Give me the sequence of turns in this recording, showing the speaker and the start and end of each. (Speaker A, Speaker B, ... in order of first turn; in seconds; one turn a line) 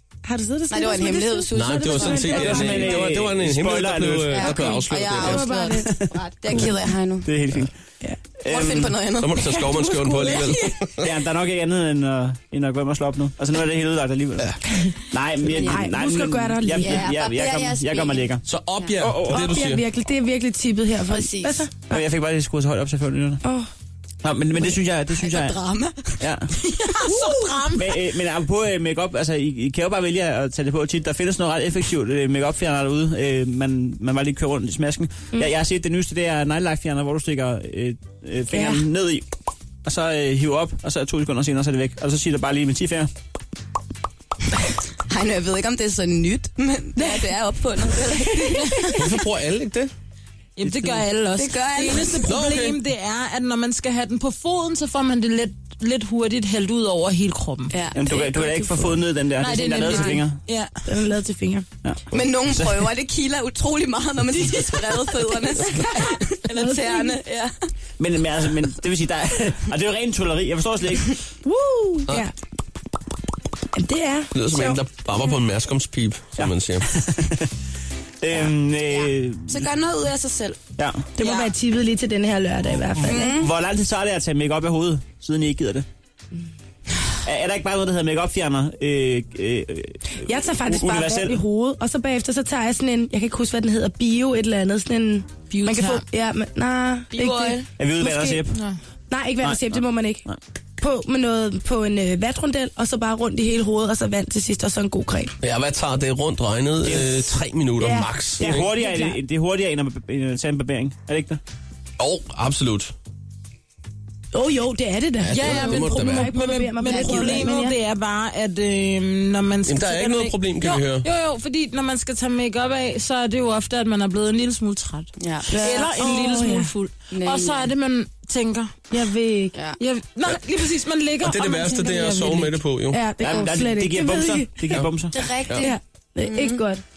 Speaker A: 0.2-3.1
Speaker B: 0.7-2.6
Speaker C: 1.5-5.5
Speaker D: 2.3-4.8
Speaker B: 4.3-7.3
Speaker A: 5.2-6.0
Speaker D: 5.8-6.7
Speaker D: 7.2-7.7
Speaker D: 8.4-9.0
Speaker B: 8.5-9.4
Speaker C: 9.2-11.1
Speaker A: 9.6-10.7
Speaker D: 11.0-14.6
Speaker D: 15.1-18.4
Speaker B: 15.5-15.9
Speaker A: 15.7-17.1
Speaker B: 16.8-18.3
Speaker C: 18.5-19.9
Speaker D: 19.0-19.6
Speaker A: 19.3-22.0
Speaker B: 21.1-21.7
Speaker D: 21.9-23.4
Speaker D: 24.2-25.6
Speaker B: 25.1-27.4
Speaker D: 26.2-26.5
Speaker E: 27.0-27.8
Speaker A: 27.1-27.4
Speaker D: 27.8-39.3
Speaker A: 38.5-38.9
Speaker D: 39.9-43.1
Speaker B: 45.1-49.0
Speaker A: 47.0-47.3
Speaker A: 48.2-49.1
Speaker C: 49.0-49.9
Speaker E: 50.6-57.7
Speaker B: 51.4-52.3
Speaker C: 52.2-52.8
Speaker B: 57.7-58.4
Speaker D: 58.0-60.4
Speaker A: 58.5-58.8
Speaker E: 59.4-60.7
Speaker A: 59.9-60.2
Speaker A: 60.9-61.7
Speaker D: 61.8-62.9
Speaker B: 62.1-67.5
Speaker A: 66.5-67.1
Speaker D: 68.0-71.2
Speaker A: 71.4-72.3
Speaker A: 73.8-74.8
Speaker C: 74.3-76.9
Speaker D: 76.4-77.5
Speaker D: 78.2-79.7
Speaker B: 78.8-80.6
Speaker D: 80.8-81.1
Speaker A: 81.2-83.4
Speaker E: 81.2-81.5
Speaker D: 83.0-85.9
Speaker B: 83.0-83.5
Speaker D: 87.2-91.4
Speaker A: 90.2-98.4
Speaker E: 95.5-96.0
Speaker B: 97.1-97.7
Speaker D: 97.8-98.6
Speaker A: 99.1-100.2
Speaker D: 99.4-100.4
Speaker A: 100.8-105.3
Speaker C: 105.4-108.7
Speaker D: 106.8-107.3
Speaker A: 107.8-109.2
Speaker D: 108.4-111.4
Speaker C: 112.0-112.9
Speaker A: 114.3-117.8
Speaker C: 115.2-116.4
Speaker E: 115.3-128.8
Speaker B: 116.8-117.6
Speaker C: 119.7-121.1
Speaker B: 125.2-126.2
Speaker A: 125.5-126.7
Speaker B: 127.1-127.7
Speaker A: 128.9-129.6
Speaker B: 129.6-129.8
Speaker E: 129.8-132.6
Speaker C: 131.2-133.0
Speaker A: 132.9-134.8
Speaker D: 133.2-135.2
Speaker B: 135.1-136.6
Speaker A: 135.6-136.8